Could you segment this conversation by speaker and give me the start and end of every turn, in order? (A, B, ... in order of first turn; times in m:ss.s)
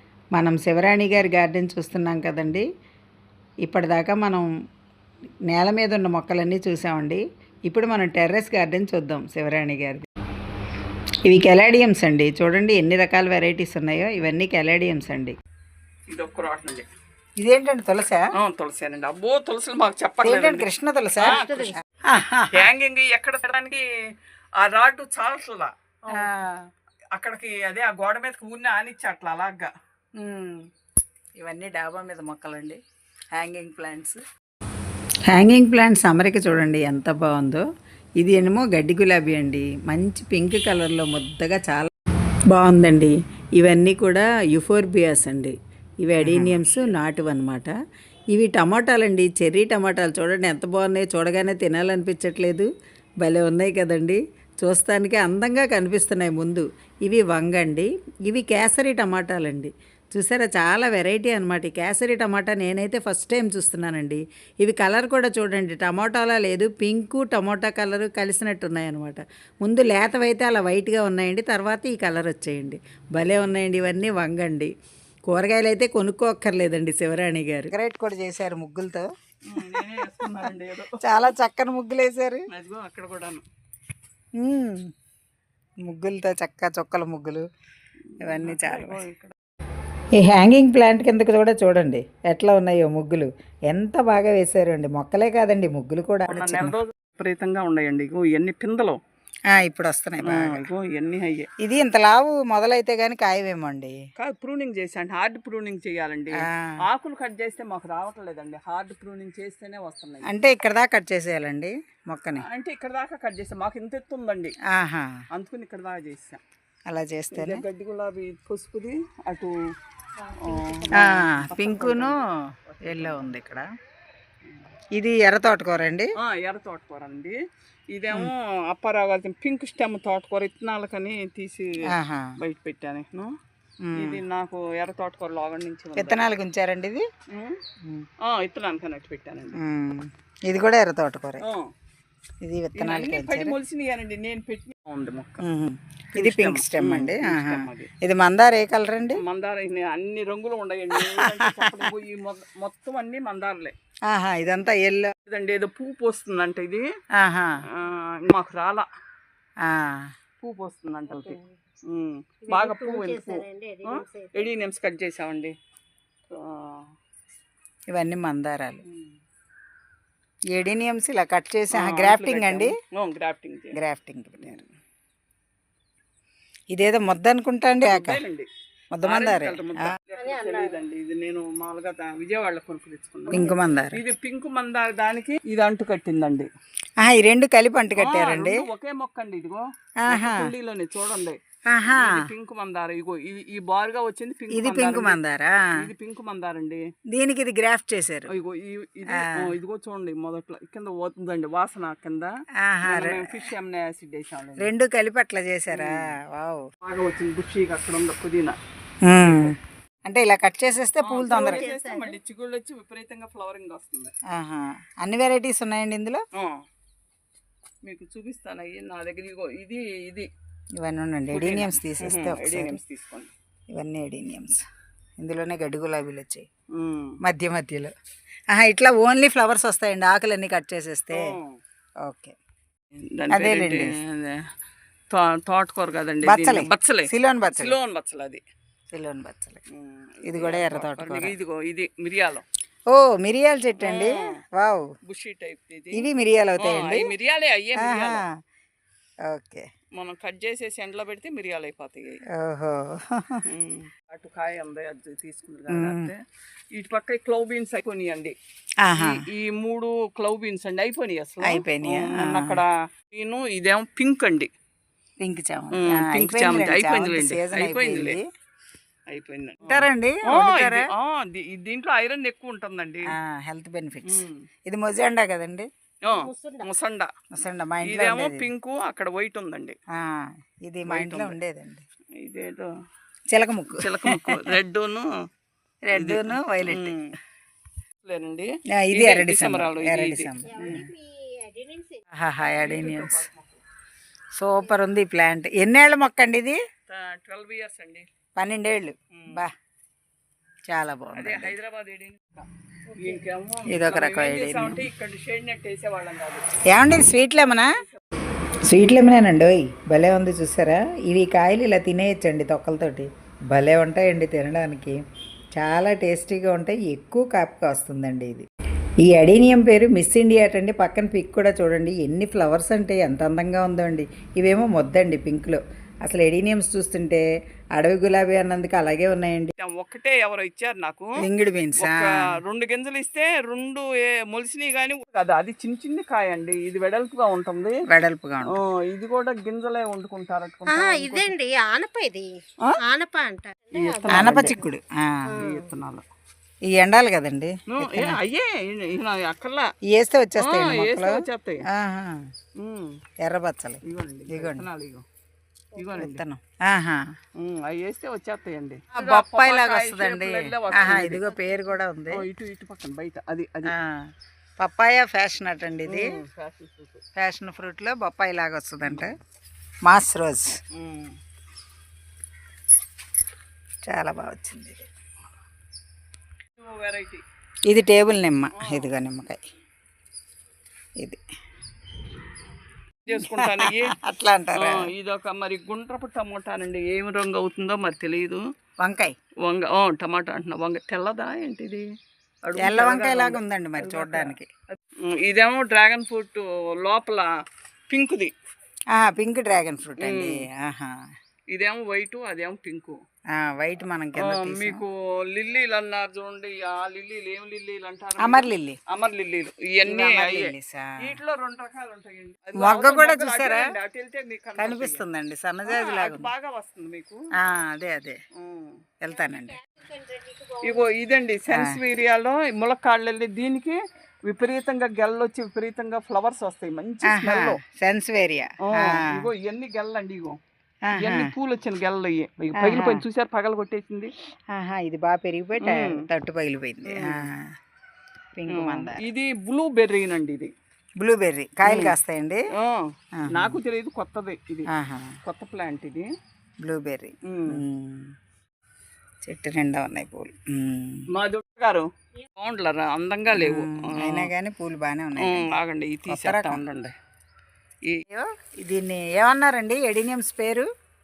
0:00.3-0:02.6 A
0:03.6-0:04.5 A
0:05.5-0:10.0 A
0:11.2-0:15.4 A
0:16.1-0:16.9 B
0:17.4-0:18.3 A
0:18.4-0:20.7 B
0:20.2-0:21.4 A
0:21.2-0:21.7 B
0:21.2-0:21.8 C
0:22.1-0:22.7 A
0:22.5-0:23.8 B
0:24.6-0:26.3 B
0:26.1-0:26.7 A
0:27.1-0:29.7 B
0:30.2-0:30.7 A
0:31.4-0:32.8 A
0:33.3-0:34.2 A
0:35.3-0:37.6 A
0:38.2-0:41.9 A
0:42.5-0:47.7 A
0:46.2-0:46.6 B
0:48.3-0:52.7 A
0:53.2-1:14.7 A
1:15.3-1:22.4 A
1:19.5-1:21.3 B
1:22.5-1:23.4 B
1:24.4-1:24.9 A
1:25.8-1:27.4 A
1:28.1-1:29.3 B
1:28.2-1:29.0 A
1:30.2-1:36.8 A
1:36.3-1:39.0 B
1:39.5-1:40.7 A
1:40.2-1:41.5 B
1:41.6-1:44.0 A
1:44.2-1:50.3 B
1:46.4-1:46.8 A
1:50.2-1:52.4 A
1:52.4-1:54.6 B
1:54.7-1:55.2 A
1:55.3-1:56.4 B
1:56.9-1:57.6 A
1:57.3-1:59.6 B
2:00.2-2:01.3 C
2:00.4-2:03.3 B
2:01.0-2:02.3 A
2:02.8-2:03.6 A
2:05.0-2:06.1 A
2:06.2-2:07.4 B
2:07.9-2:11.8 B
2:11.9-2:12.4 A
2:12.4-2:13.3 B
2:13.8-2:14.2 A
2:14.0-2:16.3 B
2:16.0-2:17.1 A
2:17.3-2:17.6 B
2:18.2-2:19.6 B
2:19.5-2:21.4 A
2:21.4-2:21.7 B
2:22.4-2:23.6 A
2:22.8-2:25.4 B
2:25.4-2:29.2 A
2:26.1-2:27.9 B
2:29.2-2:33.8 B
2:31.0-2:31.9 A
2:34.1-2:35.1 A
2:35.2-2:36.8 B
2:37.2-2:37.6 A
2:37.8-2:38.9 B
2:39.6-2:40.1 A
2:40.4-2:45.5 B
2:41.1-2:41.5 C
2:42.4-2:44.5 C
2:46.3-2:46.9 B
2:47.9-2:48.8 A
2:48.8-2:49.1 B
2:50.5-2:52.7 A
2:51.8-2:53.8 B
2:53.7-2:54.7 A
2:56.7-2:58.2 A
2:57.8-2:58.5 B
2:58.9-2:59.9 A
2:59.0-3:06.5 B
3:00.2-3:00.8 C
3:03.3-3:04.0 A
3:07.0-3:08.7 A
3:07.9-3:11.4 B
3:10.0-3:10.5 A
3:11.7-3:12.2 A
3:11.9-3:15.2 B
3:14.5-3:15.8 A
3:15.8-3:16.8 B
3:17.1-3:18.3 A
3:18.3-3:22.3 B
3:19.1-3:19.5 A
3:22.6-3:23.5 A
3:22.8-3:24.7 B
3:24.6-3:26.6 A
3:25.7-3:26.2 B
3:26.8-3:28.6 B
3:29.0-3:31.6 A
3:29.2-3:29.5 B
3:31.0-3:34.1 B
3:31.3-3:32.2 C
3:34.3-3:36.2 A
3:36.4-3:36.6 B
3:37.8-3:40.3 B
3:40.8-3:42.8 A
3:41.3-3:43.3 B
3:43.8-3:44.6 A
3:45.2-3:46.5 A
3:46.7-3:47.2 B
3:47.2-3:47.9 A
3:48.5-3:51.3 A
3:51.1-3:51.6 B
3:52.0-3:52.4 A
3:53.0-3:54.4 B
3:53.3-3:54.0 A
3:55.1-3:58.4 B
3:56.2-3:57.8 A
3:58.9-3:59.6 A
3:59.7-4:02.4 B
4:00.2-4:01.3 A
4:02.9-4:04.9 A
4:03.8-4:04.4 B
4:05.0-4:06.0 B
4:05.9-4:07.1 A
4:06.6-4:08.2 B
4:07.8-4:08.4 A
4:09.3-4:09.7 A
4:10.0-4:12.2 B
4:12.3-4:13.4 A
4:13.4-4:16.2 B
4:15.7-4:16.1 A
4:16.7-4:18.4 B
4:18.8-4:19.2 A
4:18.9-4:24.5 B
4:21.4-4:22.6 A
4:25.2-4:28.2 A
4:25.7-4:28.2 B
4:29.1-4:33.1 B
4:29.6-4:30.9 A
4:33.1-4:35.7 A
4:34.1-4:34.5 B
4:36.0-4:37.1 B
4:36.0-4:36.7 C
4:37.3-4:38.5 A
4:37.8-4:39.8 B
4:39.9-4:41.8 A
4:40.9-4:41.4 B
4:42.2-4:42.7 B
4:43.3-4:44.4 A
4:43.8-4:45.1 B
4:45.8-4:46.9 A
4:45.9-4:47.1 B
4:48.0-4:50.9 B
4:48.8-4:50.9 A
4:50.4-4:52.0 C
4:52.1-4:53.2 A
4:52.6-4:53.6 B
4:54.3-4:56.6 A
4:56.9-4:58.1 B
4:58.4-4:59.5 A
4:59.1-4:59.4 B
5:00.7-5:01.5 A
5:01.1-5:06.5 B
5:03.7-5:04.9 A
5:06.7-5:07.8 A
5:07.4-5:08.0 B
5:08.6-5:15.0 A
5:15.6-5:18.4 A
5:19.1-5:27.2 A
5:27.8-5:29.5 A
5:29.6-5:31.2 B
5:31.2-5:32.1 A
5:31.8-5:37.8 B
5:37.9-5:38.6 A
5:38.5-5:41.3 B
5:40.7-5:44.6 C
5:43.7-5:44.6 B
5:44.1-5:45.4 A
5:45.3-5:45.7 C
5:45.4-5:46.0 B
5:46.7-5:48.2 A
5:47.7-5:49.7 B
5:49.9-5:51.2 A
5:50.4-5:51.6 B
5:51.7-5:52.2 A
5:52.6-5:53.0 B
5:53.2-5:54.7 A
5:53.8-5:55.0 B
5:55.8-5:56.2 B
5:56.0-5:57.0 A
5:57.4-6:01.3 B
5:59.0-6:02.2 A
6:00.7-6:01.6 C
6:02.1-6:03.7 B
6:03.6-6:06.2 A
6:05.9-6:07.0 B
6:07.2-6:09.2 A
6:09.8-6:10.6 A
6:10.7-6:11.2 B
6:13.9-6:14.9 A
6:16.6-6:17.2 B
6:17.7-6:19.4 A
6:18.6-6:18.9 B
6:23.0-6:23.9 B
6:23.1-6:24.9 A
6:24.5-6:28.4 B
6:28.8-6:29.1 A
6:29.4-6:31.9 B
6:32.4-6:37.3 B
6:32.6-6:34.5 A
6:37.9-6:38.3 B
6:38.9-6:40.9 A
6:40.0-6:40.4 B
6:41.5-6:43.0 B
6:43.3-6:44.8 A
6:44.2-6:55.0 B
6:48.2-6:48.8 A
6:49.8-6:51.2 A
6:52.6-6:53.7 A
6:54.6-6:56.3 A
6:55.6-6:57.2 B
6:57.4-6:58.2 A
6:58.4-6:58.8 B
6:59.0-6:59.6 A
6:59.1-7:00.9 C
7:00.6-7:07.6 B
7:01.5-7:01.8 A
7:07.0-7:09.3 A
7:08.7-7:10.4 B
7:10.9-7:11.3 A
7:11.0-7:14.1 B
7:12.6-7:13.0 A
7:14.5-7:17.5 A
7:15.6-7:16.0 B
7:16.8-7:17.3 B
7:18.3-7:19.0 A
7:18.5-7:20.5 B
7:21.0-7:22.4 A
7:21.6-7:21.9 B
7:22.6-7:24.7 B
7:23.2-7:23.6 A
7:24.7-7:25.2 A
7:25.2-7:26.1 B
7:26.6-7:28.1 A
7:27.3-7:27.6 B
7:29.2-7:31.1 A
7:31.1-7:34.3 B
7:33.3-7:36.6 A
7:35.2-7:36.9 B
7:38.1-7:40.7 A